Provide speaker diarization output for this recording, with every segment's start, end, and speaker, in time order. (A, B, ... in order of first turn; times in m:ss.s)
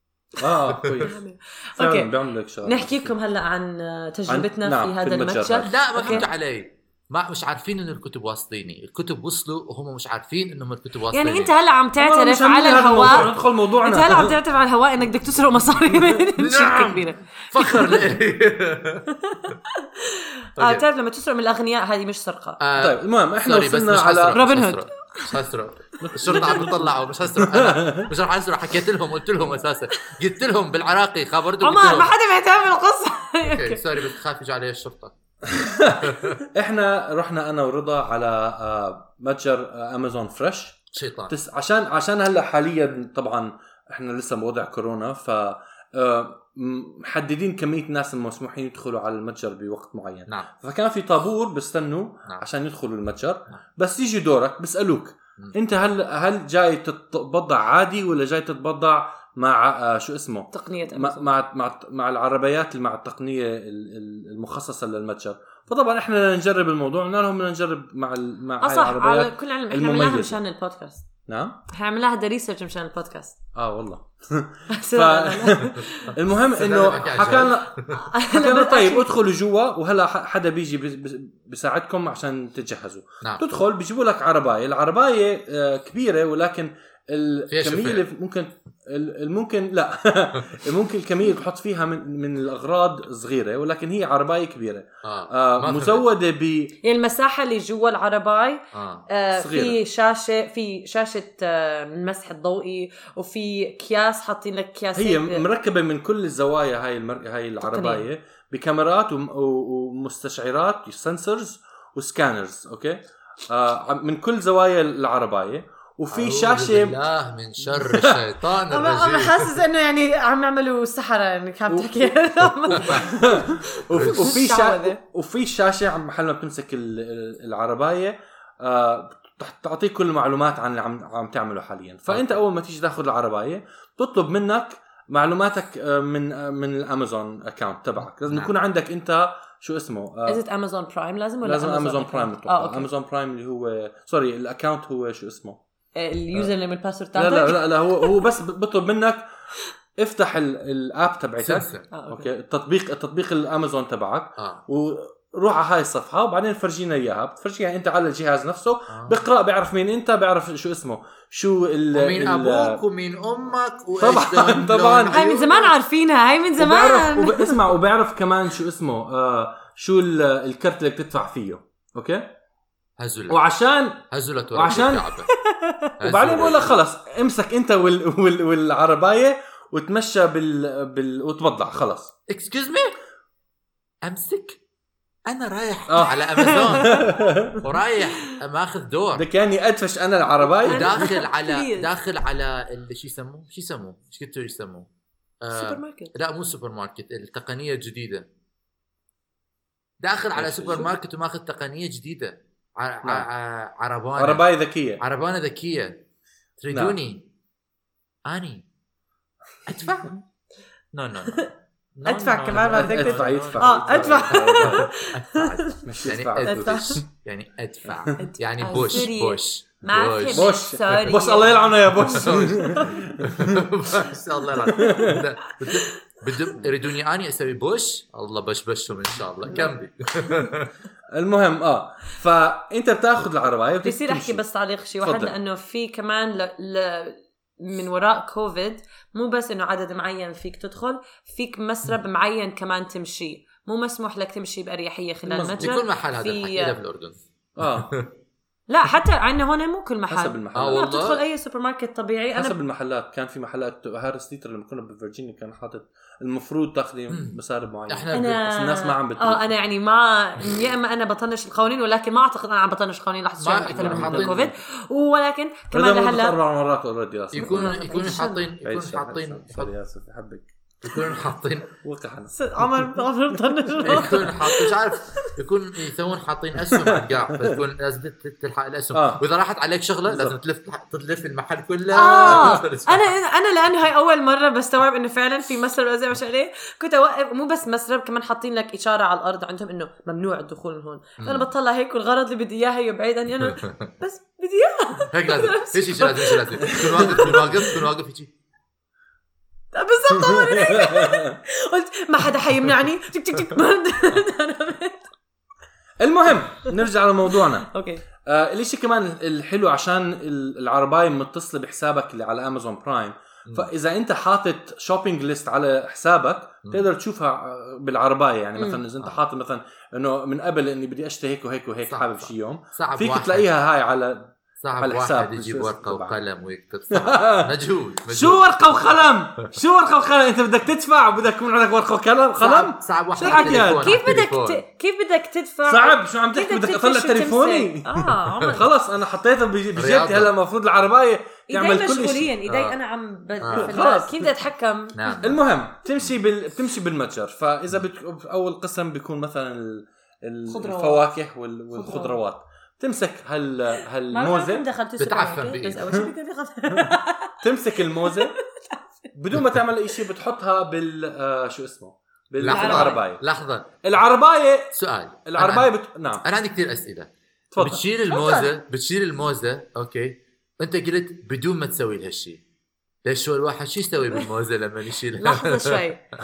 0:00.4-0:01.2 A
0:00.7-0:01.1 B
0:01.0-0:02.1 C
0:01.8-0:03.1 A
0:02.6-0:06.3 C
0:04.3-0:06.3 A
0:05.6-0:11.5 B
0:11.1-0:18.0 C
0:12.0-0:14.4 A
0:16.4-0:19.1 B
0:19.2-0:22.6 C
0:20.6-0:20.8 B
0:22.6-0:32.1 B
0:22.8-0:24.4 A
0:24.3-0:25.3 C
0:26.0-0:28.1 A
0:26.3-0:26.6 C
0:31.6-0:33.8 C
0:33.4-0:35.1 B
0:35.5-1:10.4 A
0:35.9-0:36.4 B
0:40.9-0:41.3 B
1:00.5-1:01.3 C
1:08.6-1:11.1 C
1:11.3-1:11.6 A
1:11.7-1:13.4 C
1:13.6-1:17.8 A
1:14.7-1:16.1 C
1:16.6-1:18.0 B
1:18.0-1:19.1 C
1:18.3-1:36.7 A
1:27.5-1:28.0 B
1:35.0-1:36.0 B
1:36.8-1:45.4 C
1:38.7-1:39.1 B
1:39.3-1:39.8 A
1:45.0-1:57.0 A
1:47.6-1:48.0 C
1:56.1-1:59.5 B
1:57.6-1:58.2 A
1:58.7-2:05.0 C
2:01.7-2:20.4 A
2:03.9-2:04.3 B
2:20.3-2:22.9 C
2:21.4-2:25.6 A
2:26.0-2:28.2 C
2:27.2-2:29.2 A
2:30.0-2:42.8 A
2:31.4-2:31.9 B
2:31.9-2:32.3 C
2:38.9-2:39.2 B
2:42.0-2:45.7 B
2:44.0-2:45.2 A
2:45.1-2:47.6 C
2:46.6-2:52.3 A
2:53.0-2:53.4 B
2:53.3-2:54.0 A
2:54.1-2:55.3 B
2:54.6-2:55.1 A
2:55.3-2:55.9 C
2:56.0-2:56.8 B
2:56.1-3:02.1 A
3:02.3-3:03.0 B
3:04.0-3:04.6 B
3:05.3-3:07.1 B
3:05.9-3:07.6 A
3:06.4-3:07.2 C
3:07.6-3:09.2 B
3:09.2-3:11.1 A
3:10.6-3:11.9 C
3:10.7-3:14.9 B
3:15.4-3:18.3 B
3:15.5-3:16.1 C
3:20.0-3:24.5 B
3:20.4-3:20.9 A
3:24.2-3:25.0 A
3:25.0-3:26.0 B
3:26.6-3:27.3 B
3:26.7-3:27.0 A
3:28.2-3:28.6 B
3:29.7-3:30.2 B
3:30.9-3:40.5 B
3:32.1-3:35.8 C
3:32.5-3:34.9 A
3:35.9-3:37.1 A
3:36.4-3:37.0 C
3:38.2-3:43.0 C
3:40.3-3:43.7 A
3:42.0-3:50.7 B
3:44.7-3:45.2 C
3:44.8-3:45.2 A
3:51.1-3:54.4 A
3:53.8-4:06.8 C
3:55.0-3:55.4 A
4:05.3-4:05.8 A
4:05.6-4:08.1 B
4:07.6-4:07.9 A
4:08.7-4:12.6 C
4:10.1-4:10.9 A
4:10.5-4:11.2 B
4:12.4-4:19.4 A
4:17.1-4:17.4 B
4:17.9-4:18.3 B
4:18.1-4:26.4 C
4:23.4-4:24.4 B
4:23.7-4:24.5 A
4:25.7-4:28.0 A
4:27.3-4:29.7 B
4:27.4-4:28.4 C
4:28.6-4:31.2 A
4:30.8-4:31.7 B
4:31.8-4:32.9 A
4:32.3-4:35.3 C
4:33.8-4:43.1 B
4:36.6-4:37.6 A
4:38.9-4:39.2 A
4:40.1-4:40.4 A
4:41.9-4:57.8 C
4:42.2-4:42.6 A
4:51.2-4:51.5 B
4:53.5-4:53.8 B
4:55.1-4:58.3 B
4:59.7-5:05.1 C
5:00.1-5:01.4 A
5:06.0-5:07.7 A
5:07.7-5:08.0 C
5:08.2-5:26.2 A
5:18.6-5:18.8 C
5:21.9-5:23.5 B
5:24.6-5:28.5 B
5:26.9-5:27.5 A
5:28.1-5:34.1 A
5:32.4-5:34.6 B
5:33.2-5:38.7 C
5:35.7-5:42.3 A
5:39.8-5:40.3 B
5:41.5-5:45.2 C
5:42.5-5:42.8 B
5:43.4-5:43.7 B
5:43.5-5:44.2 A
5:45.0-5:45.4 B
5:45.2-5:54.6 A
5:50.5-5:51.0 C
5:51.7-5:52.2 C
5:54.1-5:57.4 C
5:55.0-5:55.9 B
5:56.7-5:58.4 A
5:58.0-5:58.8 C
5:59.1-6:03.2 A
6:02.4-6:03.7 B
6:02.5-6:03.0 C
6:03.8-6:04.7 A
6:04.7-6:05.7 B
6:05.3-6:06.2 A
6:06.2-6:12.4 B
6:07.5-6:07.8 A
6:08.1-6:08.5 C
6:13.1-6:15.8 B
6:15.2-6:16.0 C